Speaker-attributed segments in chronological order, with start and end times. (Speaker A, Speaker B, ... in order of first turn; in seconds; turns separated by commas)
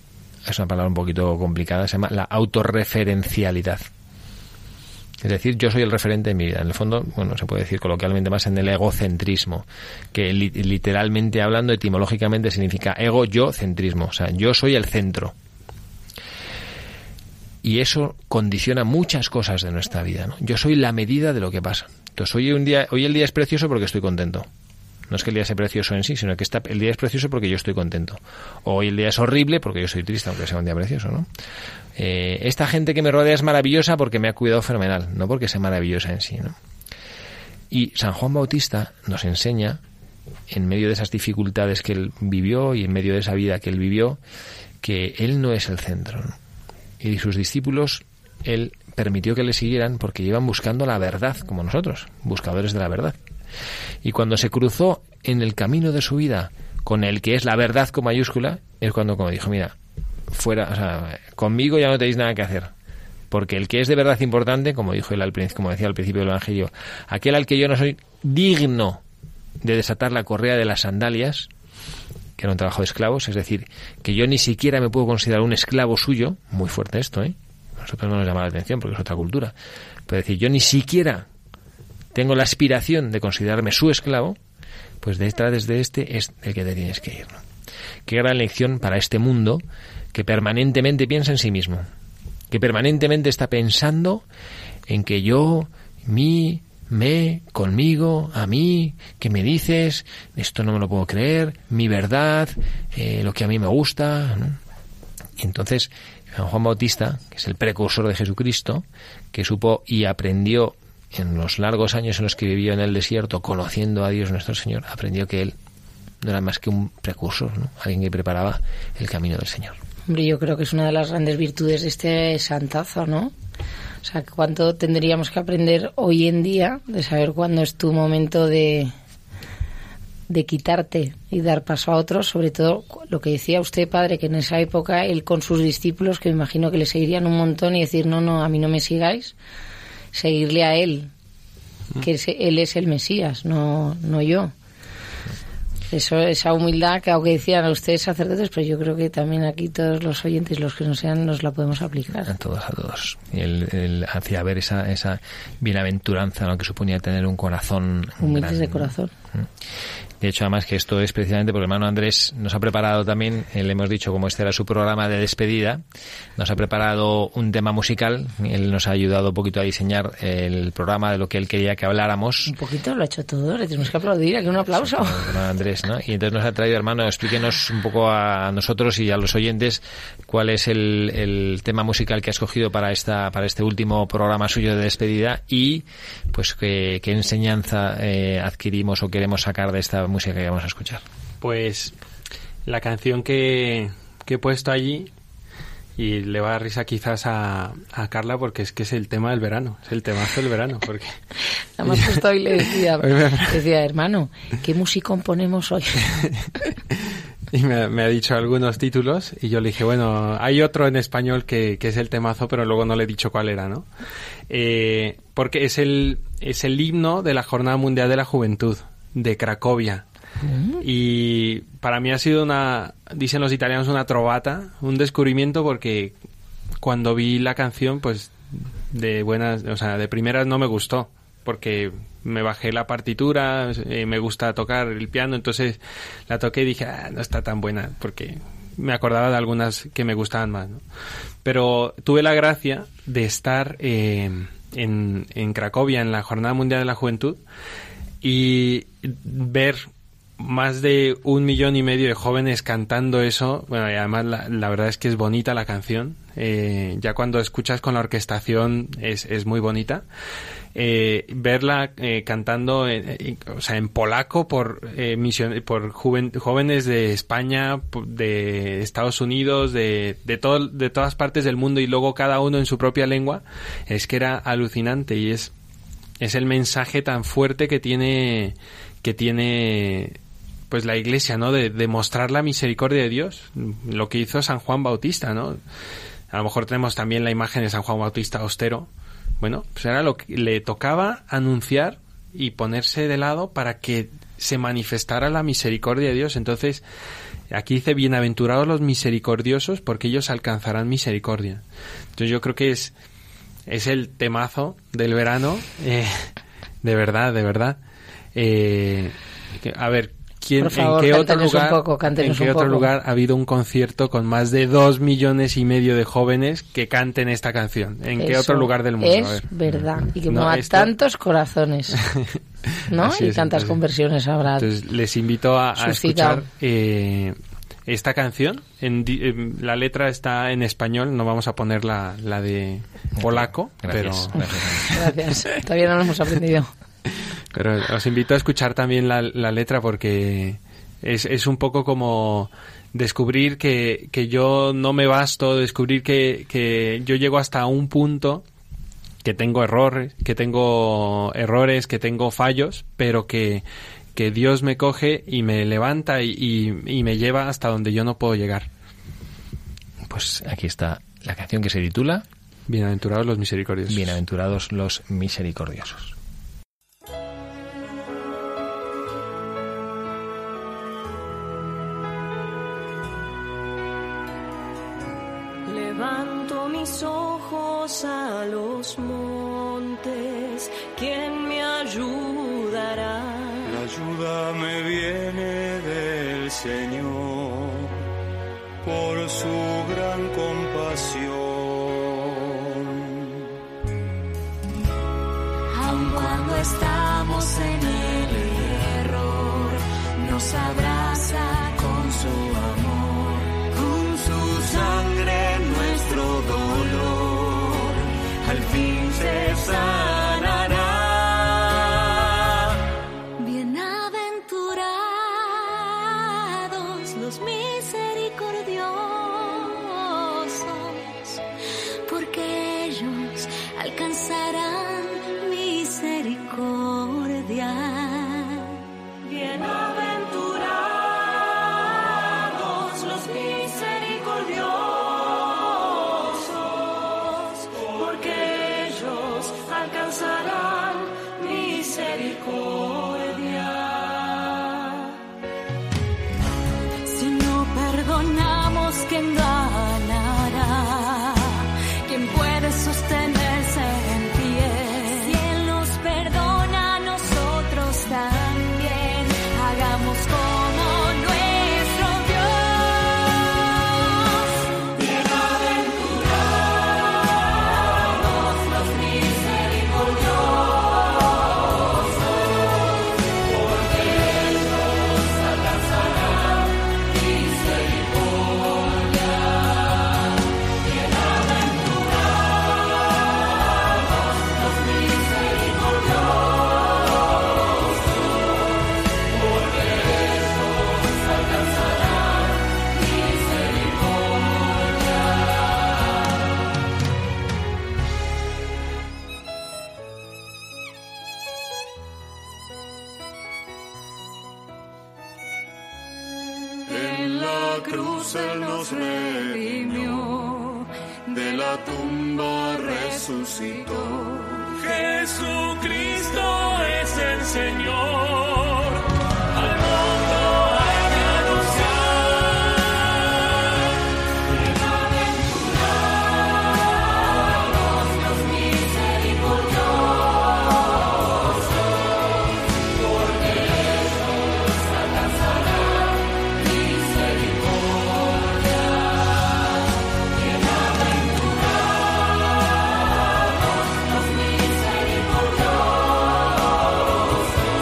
Speaker A: 0.4-3.9, Speaker A: 5.2-15.3, Speaker A: 17.6-24.5, Speaker A: 25.1-31.3, Speaker A: 31.9-36.5, Speaker A: 37.7-39.8, Speaker A: 40.5-44.2, Speaker A: 44.8-46.3, Speaker A: 47.0-53.1, Speaker A: 54.0-59.7, Speaker A: 60.3-62.7, Speaker A: 63.3-69.0, Speaker A: 69.6-71.5, Speaker A: 72.4-79.5, Speaker A: 80.1-81.3, Speaker A: 82.1-84.4, Speaker A: 85.0-87.4, Speaker A: 88.0-89.6, Speaker A: 90.1-91.8, Speaker A: 92.5-94.2, Speaker A: 94.9-104.6, Speaker A: 105.4-115.5, Speaker A: 116.2-119.8, Speaker B: 120.1-123.3, Speaker B: 124.0-128.9, Speaker B: 130.3-139.3, Speaker B: 140.1-141.1, Speaker B: 142.0-144.5, Speaker B: 145.9-152.3, Speaker A: 152.2-158.9, Speaker B: 158.2-159.1, Speaker A: 160.2-165.8, Speaker A: 166.4-172.5, Speaker B: 172.4-175.3, Speaker A: 174.7-191.0, Speaker C: 191.4-191.9, Speaker C: 192.7-195.1, Speaker C: 196.0-201.2, Speaker B: 201.8-206.1, Speaker C: 203.0-203.6, Speaker C: 207.5-213.8, Speaker C: 214.5-220.0, Speaker B: 220.5-220.8, Speaker C: 220.8-226.1, Speaker C: 226.8-240.8, Speaker C: 241.4-247.4, Speaker C: 248.2-249.8, Speaker C: 250.4-260.0, Speaker C: 260.7-275.5, Speaker C: 276.2-280.1, Speaker C: 280.7-285.6, Speaker C: 286.3-288.9, Speaker C: 289.4-296.8, Speaker C: 297.5-301.6, Speaker C: 302.1-302.9, Speaker C: 303.7-306.3, Speaker C: 306.8-307.8, Speaker C: 308.3-319.5, Speaker B: 310.6-312.9, Speaker B: 318.2-322.0, Speaker C: 320.3-320.9, Speaker C: 322.0-323.8, Speaker B: 322.9-324.7, Speaker C: 324.6-335.1, Speaker B: 325.8-326.4, Speaker A: 333.2-335.0, Speaker B: 334.9-336.7, Speaker C: 337.5-348.4, Speaker C: 349.2-353.6, Speaker C: 354.1-358.7, Speaker A: 360.1-362.2, Speaker C: 362.7-364.2, Speaker A: 363.9-366.1, Speaker D: 375.7-383.8, Speaker E: 383.6-388.0, Speaker E: 388.8-393.4, Speaker D: 395.7-412.8, Speaker D: 413.4-421.4, Speaker D: 422.1-445.0, Speaker D: 447.1-467.1, Speaker D: 467.9-471.2, Speaker D: 473.7-479.5, Speaker D: 480.9-482.0, Speaker D: 484.4-486.6, Speaker D: 489.4-494.9, Speaker D: 506.9-511.8, Speaker E: 507.1-508.1, Speaker E: 511.6-514.0, Speaker D: 513.9-514.7, Speaker E: 514.9-518.9, Speaker E: 520.4-520.7, Speaker E: 521.3-521.7, Speaker D: 525.2-525.7, Speaker D: 527.9-530.2, Speaker D: 533.1-538.0, Speaker D: 540.4-541.6, Speaker D: 543.9-546.2